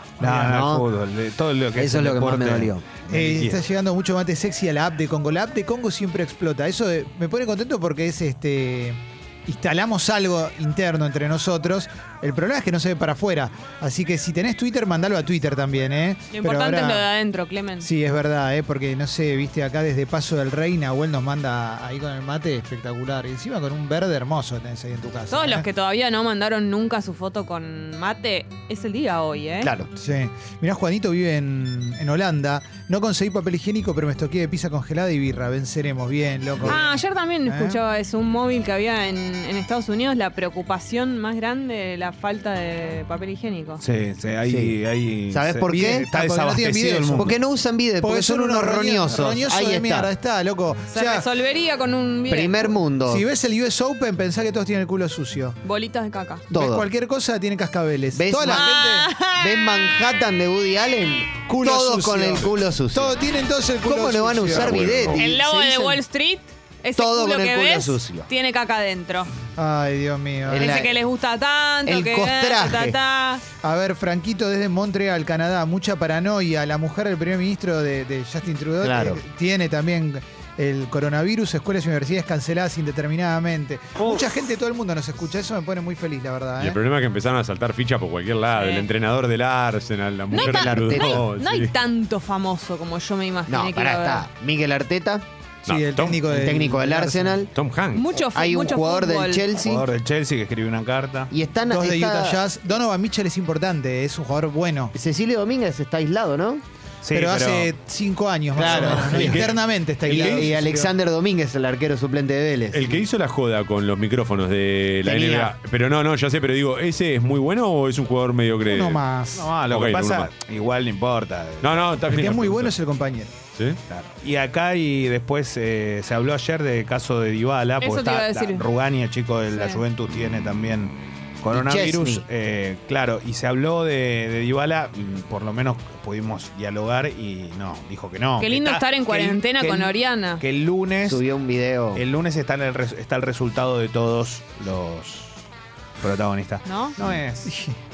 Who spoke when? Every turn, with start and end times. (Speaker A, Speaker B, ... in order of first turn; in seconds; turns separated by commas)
Speaker A: 0.2-3.6, Speaker B: 0.2-0.6, Speaker C: 0.3-0.9, Speaker C: 1.8-3.0, Speaker B: 3.1-17.1, Speaker D: 16.3-17.9, Speaker B: 17.8-25.7, Speaker D: 25.3-29.7, Speaker C: 29.6-29.9, Speaker B: 29.9-37.8, Speaker D: 36.6-43.8, Speaker A: 43.8-47.4, Speaker C: 44.5-44.8, Speaker C: 45.3-46.1, Speaker B: 45.7-47.4, Speaker C: 47.1-50.1, Speaker B: 48.0-51.3, Speaker D: 50.9-52.8, Speaker C: 52.3-53.3, Speaker B: 53.1-55.6, Speaker D: 55.6-56.5, Speaker B: 56.5-59.1, Speaker C: 56.5-56.9, Speaker C: 58.1-58.7, Speaker D: 58.5-59.9, Speaker C: 59.3-63.2, Speaker B: 61.5-65.0, Speaker C: 63.8-66.0, Speaker E: 64.5-65.2, Speaker D: 65.1-69.3, Speaker C: 67.0-68.3, Speaker B: 69.6-70.9, Speaker C: 70.5-71.0, Speaker D: 70.6-73.4, Speaker C: 71.9-73.0, Speaker B: 73.6-86.8, Speaker C: 78.8-79.2, Speaker E: 86.6-91.7, Speaker D: 88.5-88.9, Speaker D: 90.3-94.2, Speaker C: 90.3-91.2, Speaker C: 93.5-95.3, Speaker B: 95.7-97.4, Speaker E: 95.7-96.2, Speaker C: 96.2-97.5, Speaker E: 97.5-98.0, Speaker D: 97.9-99.5, Speaker C: 98.2-99.9, Speaker A: 99.6-101.3, Speaker C: 101.3-102.4, Speaker B: 101.7-105.0, Speaker C: 105.0-106.6, Speaker A: 107.0-107.7, Speaker B: 107.1-110.9, Speaker C: 108.6-109.5, Speaker E: 108.7-109.5, Speaker A: 108.7-109.0, Speaker C: 110.1-113.0, Speaker E: 110.1-110.4, Speaker E: 112.7-119.0, Speaker C: 115.0-115.5, Speaker B: 118.7-119.5, Speaker A: 119.3-121.8, Speaker E: 119.7-120.3, Speaker E: 121.6-122.7, Speaker B: 122.1-123.3, Speaker A: 123.9-141.2, Speaker D: 127.8-128.7, Speaker D: 129.5-129.8, Speaker C: 131.5-132.2, Speaker D: 138.4-140.4, Speaker C: 141.1-142.0, Speaker A: 141.9-145.4, Speaker A: 146.0-147.6, Speaker D: 146.7-147.0, Speaker B: 147.5-147.8